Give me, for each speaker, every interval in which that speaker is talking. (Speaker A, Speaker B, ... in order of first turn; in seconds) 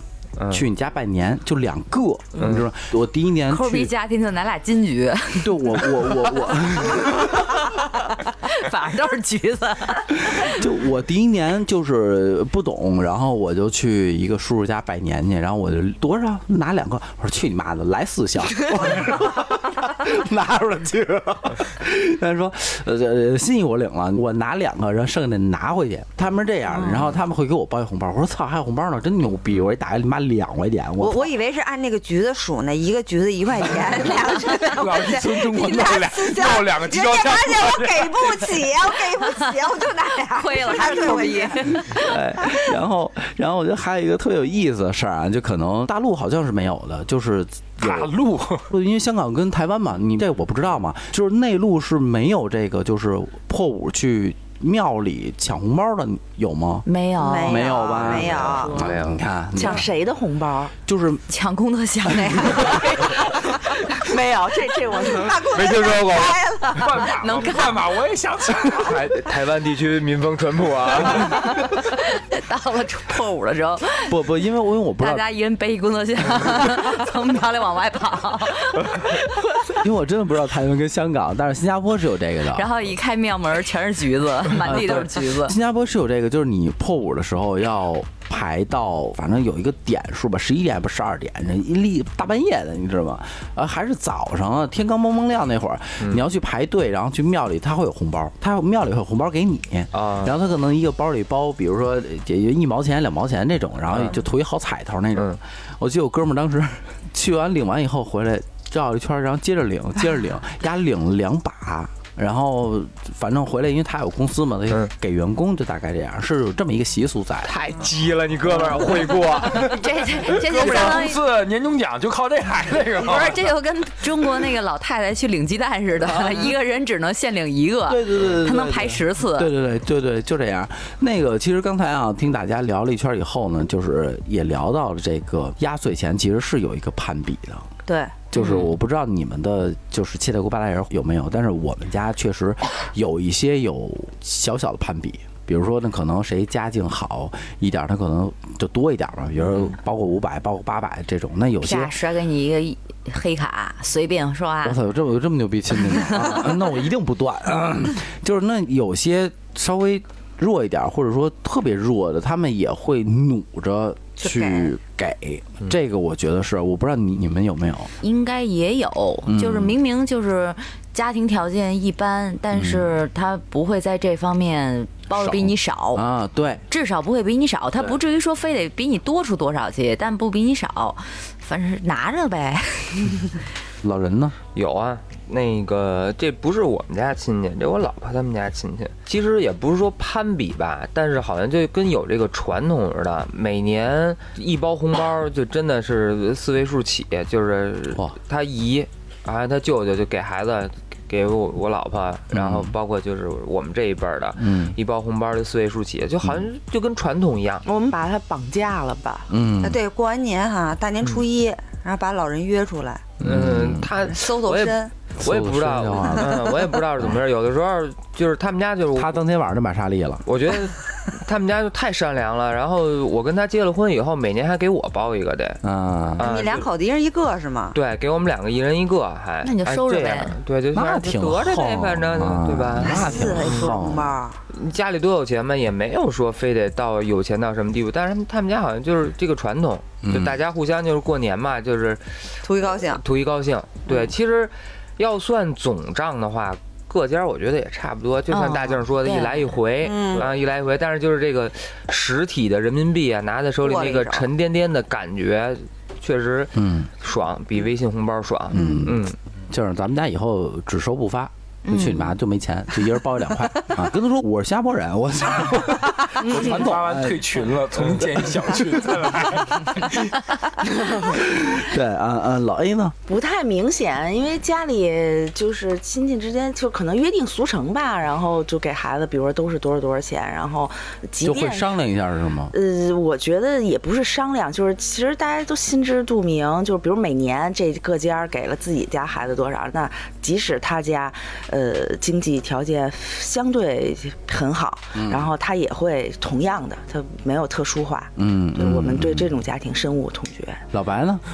Speaker A: 0.4-0.6, 2.4-2.7, 58.7-59.2, 65.5-66.4, 68.7-71.5, 99.9-100.3, 103.9-104.2, 117.4-119.8, 184.5-207.6, 213.2-219.2, 220.2-225.6, 226.2-226.7, 227.7-233.4, 234.5-259.2
Speaker B: 0.5-3.9, 5.4-7.6, 10.3-31.3, 41.9-48.1, 48.7-59.9, 60.8-61.2, 62.0-62.5, 74.1-75.2, 79.6-82.7, 84.6-117.5, 127.9-137.7, 138.3-151.9, 154.6-167.9, 169.2-169.8, 172.5-172.9, 175.1-176.6, 183.8-184.3, 202.3-202.7, 204.4-204.7, 206.2-206.5, 209.3-209.8, 213.2-213.9, 215.2-217.1, 218.9-220.2, 225.6-226.2, 230.7-234.2, 240.0-240.4, 256.5-256.9, 258.5-269.0, 270.9-272.9, 281.2-282.5, 294.9-295.3, 298.2-299.3, 300.7-301.2
Speaker C: 3.5-6.4, 6.9-10.5, 40.3-42.5, 56.9-58.0, 61.3-63.5, 66.7-67.9, 71.1-74.1, 75.0-79.2, 82.5-85.5, 119.5-121.2, 123.0-129.5, 151.6-154.8, 168.0-176.1, 176.7-183.4, 229.4-230.3, 248.3-249.5, 261.7-262.1
Speaker D: 31.0-41.9, 57.2-58.8, 65.1-67.0, 164.2-164.7, 209.6-213.1, 214.1-214.9, 226.2-227.8, 232.8-234.4, 242.4-243.0, 249.8-250.2, 253.6-254.3
Speaker E: 33.9-38.6, 47.8-48.7, 66.7-69.1, 119.5-123.5, 266.2-270.4
Speaker F: 59.5-60.7, 63.0-65.5, 207.6-209.3, 266.2-266.7, 273.1-281.8, 282.5-300.6